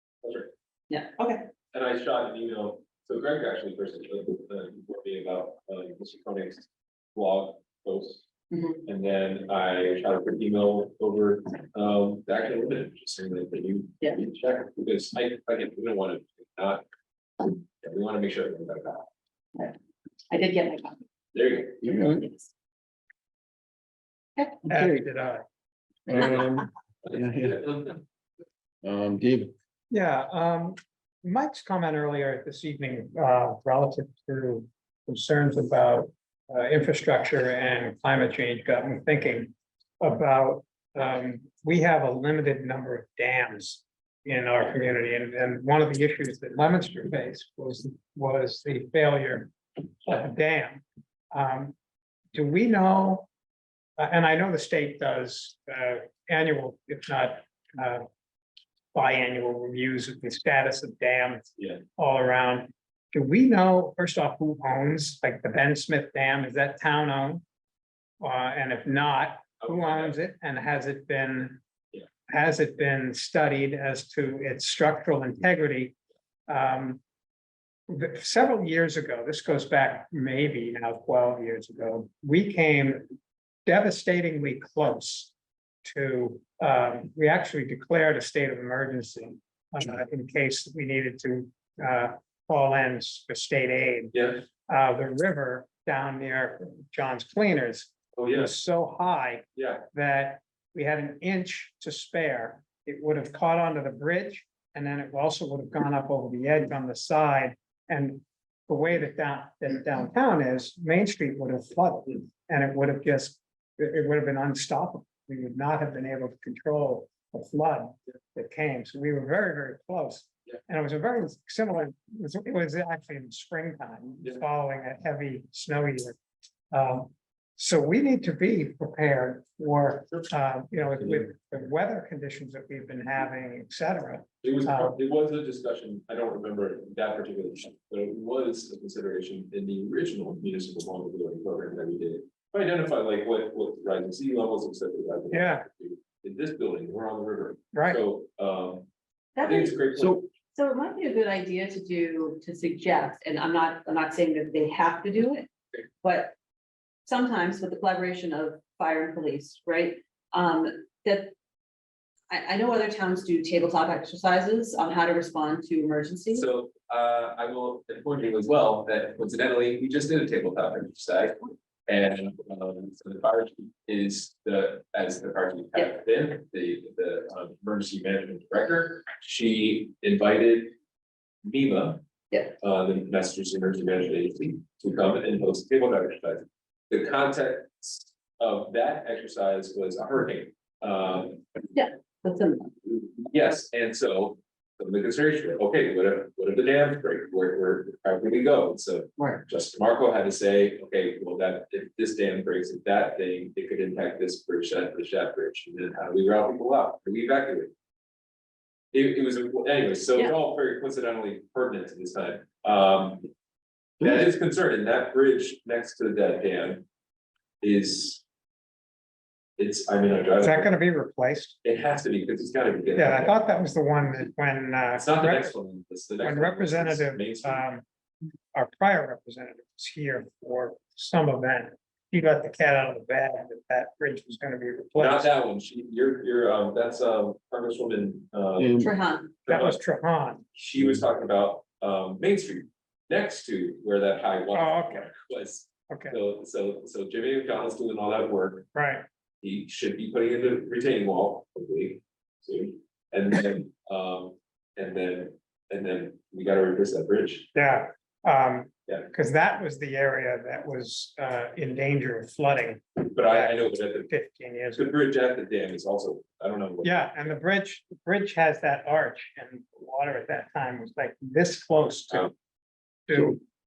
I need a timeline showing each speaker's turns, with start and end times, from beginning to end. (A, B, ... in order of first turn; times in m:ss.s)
0:00.2-0:00.5 A
0:00.9-0:01.5 B
0:01.7-0:08.2 A
0:08.5-0:08.8 B
0:08.8-0:16.8 A
0:17.4-0:19.1 A
0:20.3-0:21.0 B
0:21.3-0:21.8 A
0:21.8-0:22.2 C
0:21.8-0:22.5 B
0:24.4-0:24.6 B
0:24.6-0:25.0 C
0:24.7-0:25.4 D
0:26.1-0:27.7 C
0:27.0-0:28.0 A
0:28.8-0:29.5 C
0:29.9-0:49.5 D
0:50.0-0:51.8 D
0:52.3-0:53.3 D
0:54.0-0:58.0 D
0:58.9-1:07.4 D
1:01.6-1:01.8 A
1:08.2-1:11.6 D
1:09.6-1:10.2 A
1:12.3-1:15.9 D
1:16.5-1:17.0 D
1:17.9-1:23.1 D
1:23.7-1:25.3 D
1:25.8-1:34.1 D
1:34.1-1:34.4 A
1:34.7-2:06.2 D
1:38.2-1:38.5 A
1:39.6-1:39.8 A
2:06.7-2:15.0 D
2:14.4-2:28.9 A
2:25.3-2:25.6 D
2:27.7-2:28.0 D
2:29.4-2:29.8 B
2:29.4-2:30.3 A
2:30.5-2:35.5 B
2:36.0-2:36.4 B
2:37.0-2:41.3 B
2:42.3-2:46.5 B
2:46.3-3:00.8 A
3:01.4-3:02.0 A
3:02.6-3:11.4 A
3:11.7-3:12.8 B
3:12.9-3:27.7 A
3:28.9-3:33.3 A
3:34.0-3:36.8 A
3:37.6-3:38.2 A
3:39.6-3:40.7 A
3:40.4-3:41.6 D
3:41.6-3:43.4 A
3:43.0-3:45.5 D
3:44.9-3:47.6 A
3:46.2-3:47.8 D
3:48.5-3:55.3 D
3:55.0-3:58.9 A
3:58.6-3:58.9 C
3:58.8-3:59.3 B
3:59.4-3:59.8 A
3:59.5-4:00.4 D
4:00.5-4:08.7 A
4:04.5-4:05.1 D
4:05.9-4:06.2 D
4:08.7-4:09.1 D
4:09.4-4:17.5 A
4:17.5-4:24.9 D
4:23.0-4:24.1 A
4:24.8-4:27.0 A
4:26.8-4:32.3 D
4:33.1-4:33.4 D